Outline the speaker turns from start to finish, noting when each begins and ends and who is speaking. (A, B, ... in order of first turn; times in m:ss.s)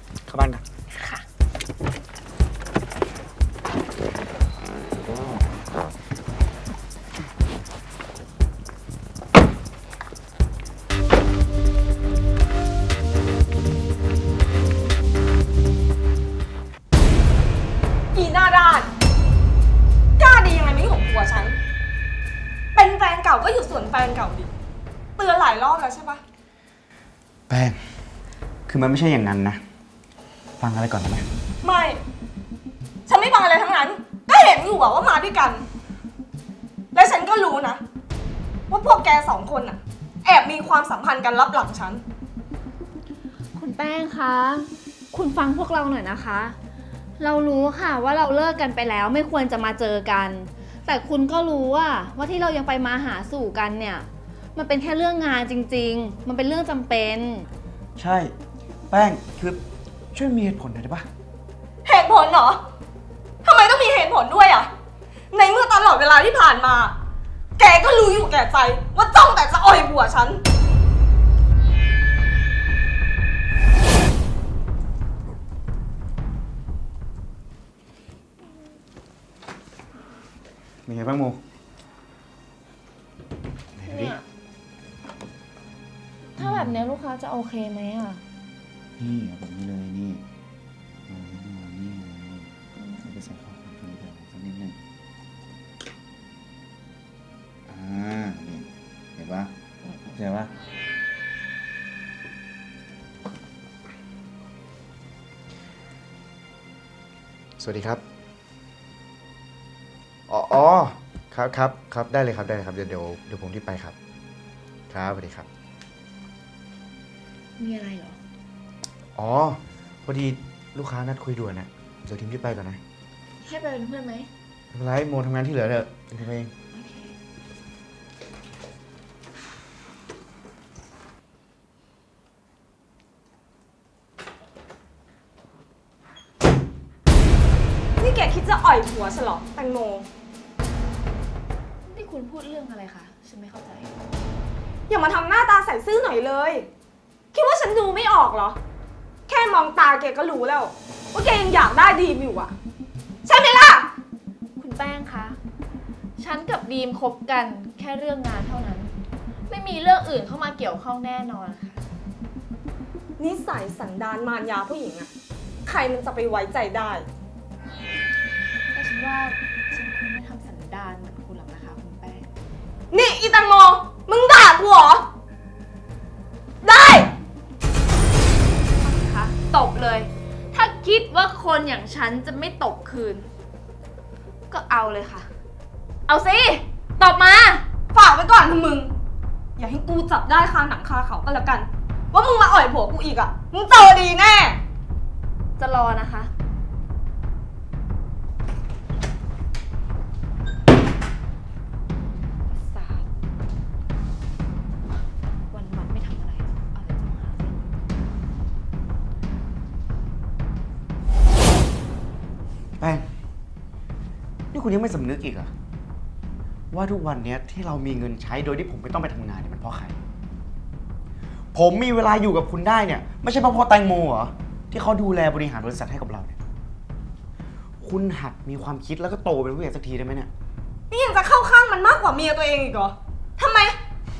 0:00.3-0:00.6 A
0:00.9-0:01.2 B
0:18.1-0:18.9 C
0:20.2-0:21.6 C
0:22.7-0:24.5 C
0:25.2-0:26.2 C
0:27.5-0:27.8 A
0:28.7-0:29.6 A
0:30.6-0:31.3 A
0:31.6-0:32.0 C
0:33.1-0:35.6 C
0:36.9-0:37.8 C
0:38.7-0:42.0 C
0:43.5-0:46.6 B
0:47.2-0:57.5 B
0:58.0-0:58.3 A
0:58.9-0:59.6 A
1:00.1-1:01.1 A
1:01.8-1:02.6 C
1:03.4-1:04.7 C
1:05.3-1:06.9 C
1:07.6-1:10.4 C
1:20.8-1:21.4 A
1:23.8-1:24.2 A
1:23.8-1:24.2 B
1:26.3-1:28.2 B
1:26.4-1:26.8 A
1:29.0-1:30.2 A
1:31.1-1:34.8 A
1:37.7-1:40.5 A
1:47.6-1:48.0 A
1:50.3-1:53.9 A
1:54.9-1:55.5 A
1:57.6-1:58.2 B
1:59.2-2:02.8 A
2:03.4-2:04.3 B
2:04.7-2:06.5 A
2:06.7-2:07.1 B
2:18.0-2:20.1 C
2:21.9-2:23.9 B
2:24.9-2:26.7 C
2:27.3-2:28.6 C
2:29.3-2:32.5 C
2:33.2-2:33.9 C
2:34.6-2:35.4 B
2:36.2-2:38.9 B
2:39.5-2:41.8 B
2:43.2-2:45.1 C
2:45.6-2:47.1 C
2:48.6-2:52.3 B
2:52.9-2:55.1 C
2:56.6-2:57.1 C
2:58.8-3:03.3 B
3:04.5-3:05.3 B
3:06.1-3:07.6 B
3:07.9-3:08.9 C
3:09.6-3:14.6 C
3:15.6-3:16.3 B
3:22.5-3:23.1 B
3:25.5-3:27.6 B
3:32.8-3:33.1 A
3:34.5-3:35.5 A
3:36.7-3:40.0 A
3:41.5-3:46.4 A
3:47.8-3:50.3 A
3:50.9-3:53.8 C